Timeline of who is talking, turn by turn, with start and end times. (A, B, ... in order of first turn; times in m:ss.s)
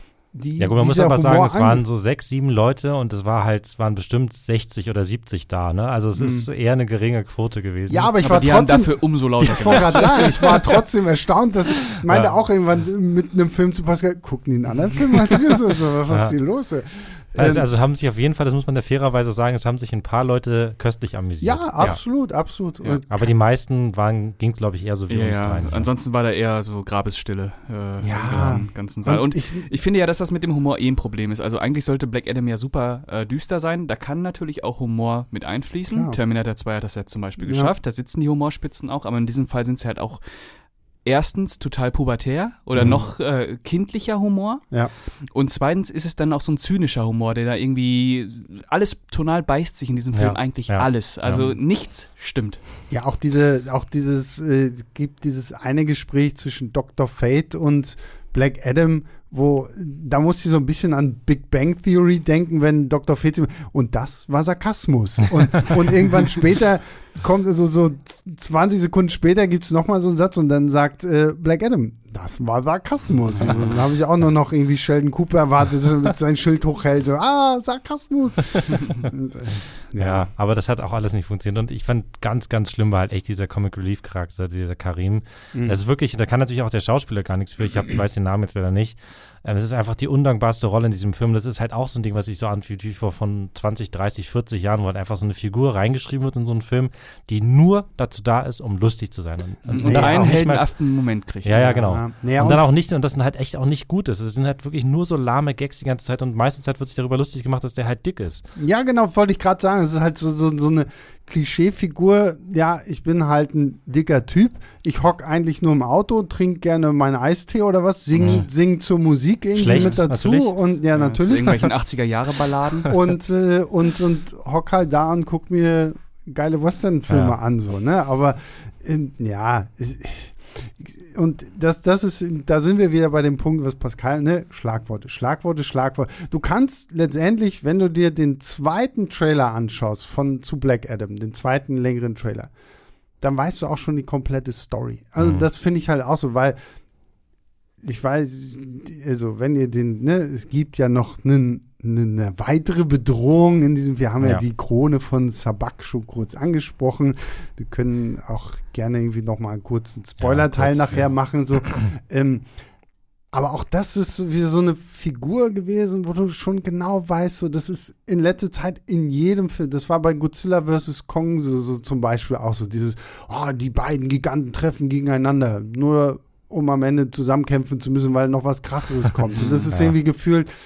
0:00.3-0:01.8 A
0:00.6-0:08.1 B
0:06.2-0:06.5 A
0:07.9-0:17.7 A
0:08.2-0:10.8 C
0:12.0-0:12.3 B
0:16.1-0:16.4 B
0:17.4-0:22.0 B
0:21.4-0:23.3 A
0:23.1-0:25.9 B
0:25.1-0:40.5 C
0:28.0-0:29.6 A
0:28.3-0:28.6 B
0:35.9-0:36.2 A
0:37.4-0:37.7 A
0:41.0-0:52.6 C
0:42.7-0:43.0 A
0:50.1-0:51.6 B
0:52.9-1:20.2 A
1:13.4-1:13.8 B
1:13.4-1:13.7 C
1:20.0-1:40.7 B
1:25.5-1:25.8 A
1:39.7-1:41.6 C
1:39.8-1:40.4 A
1:41.4-1:48.4 B
1:41.5-1:42.7 A
1:48.6-2:01.6 A
1:58.1-1:58.5 B
1:59.5-2:00.6 B
1:59.7-2:00.0 C
2:00.9-2:03.0 C
2:02.9-2:22.5 A
2:07.1-2:07.4 B
2:23.2-2:26.6 A
2:25.2-2:25.5 B
2:27.8-2:42.5 A
2:40.2-2:41.1 B
2:43.3-3:00.5 A
2:59.3-2:59.7 C
2:59.7-3:00.0 B